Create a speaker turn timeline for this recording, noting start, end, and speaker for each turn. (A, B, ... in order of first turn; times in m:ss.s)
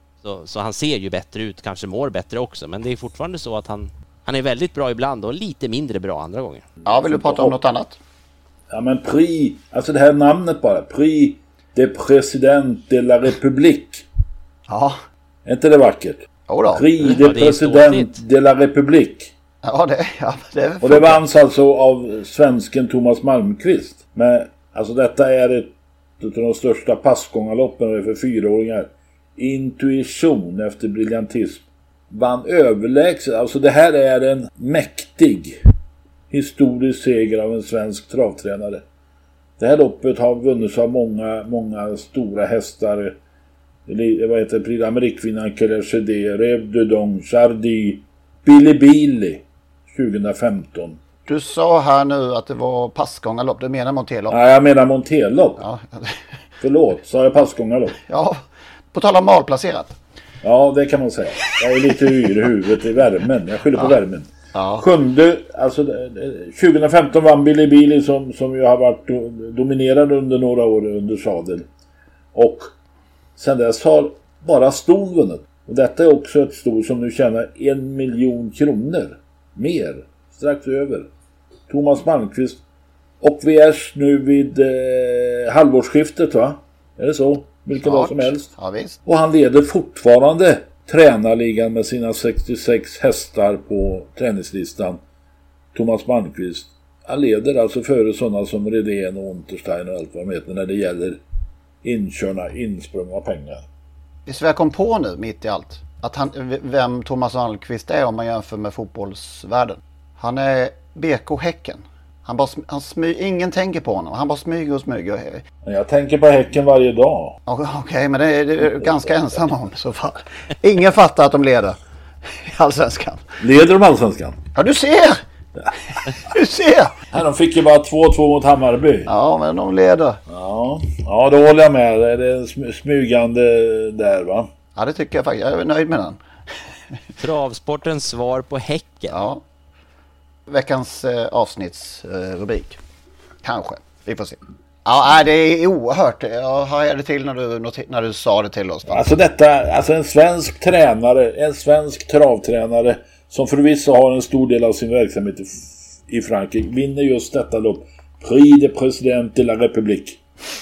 0:00.2-0:06.6 A
0:06.8-0:08.0 B
0:06.9-0:07.6 C
0:08.7-0:14.0 C
0:14.7-0:15.0 B
0:15.4-0:19.3 C
0:16.5-0:17.1 B
0:17.2-0:18.2 A
0:19.6-0:21.2 B
0:20.8-0:35.6 C
0:36.3-0:38.8 C
0:39.6-0:43.2 C
0:43.9-0:51.0 C
0:51.3-0:54.4 B
0:54.3-0:55.6 C
0:55.6-0:56.2 B
0:56.6-0:58.0 C
0:58.1-1:00.0 B
1:00.4-1:11.6 C
1:04.5-1:04.8 B
1:12.3-1:12.7 C
1:13.4-1:21.1 C
1:21.7-1:22.6 C
1:23.2-1:28.5 C
1:27.8-1:29.0 B
1:29.0-1:35.0 C
1:35.7-1:41.2 C
1:41.8-1:43.6 C
1:44.2-1:55.4 B
1:55.6-1:57.4 C
1:57.5-2:03.2 B
2:03.4-2:04.4 C
2:04.5-2:05.2 B
2:06.1-2:06.9 B
2:07.1-2:09.1 C
2:09.0-2:10.2 B
2:10.3-2:14.5 C
2:14.8-2:16.2 B
2:17.2-2:19.2 A
2:19.1-2:19.4 B
2:20.5-2:22.8 B
2:23.4-2:29.0 B
2:28.9-2:40.2 C